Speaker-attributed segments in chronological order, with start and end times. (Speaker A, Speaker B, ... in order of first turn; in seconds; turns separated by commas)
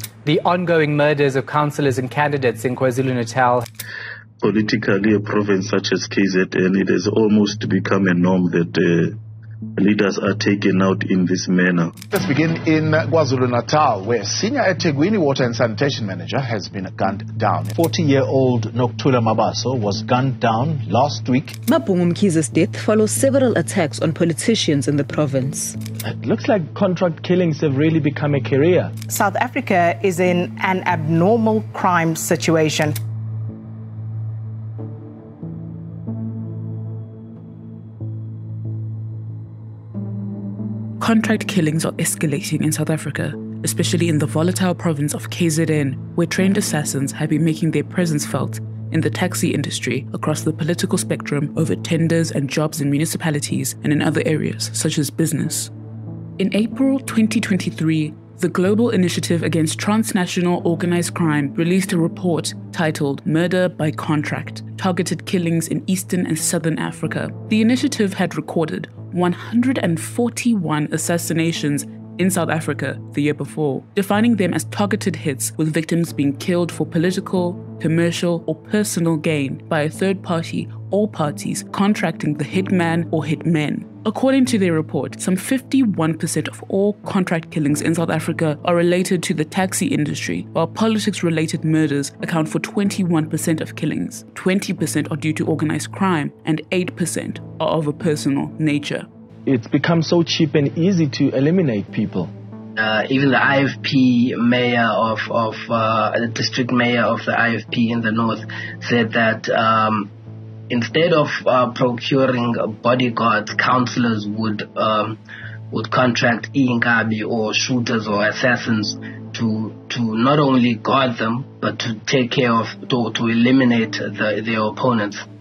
Speaker A: 0.2-3.6, Speaker B: 4.4-9.2, Speaker B: 9.8-12.0, Speaker C: 12.1-17.7, Speaker D: 17.7-21.6, Speaker E: 21.7-25.8, Speaker F: 26.1-28.9, Speaker G: 29.1-33.0, Speaker H: 41.0-55.7, Speaker H: 56.4-99.1, Speaker F: 99.5-102.3, Speaker I: 102.8-110.1, Speaker I: 110.7-115.2, Speaker I: 115.7-125.2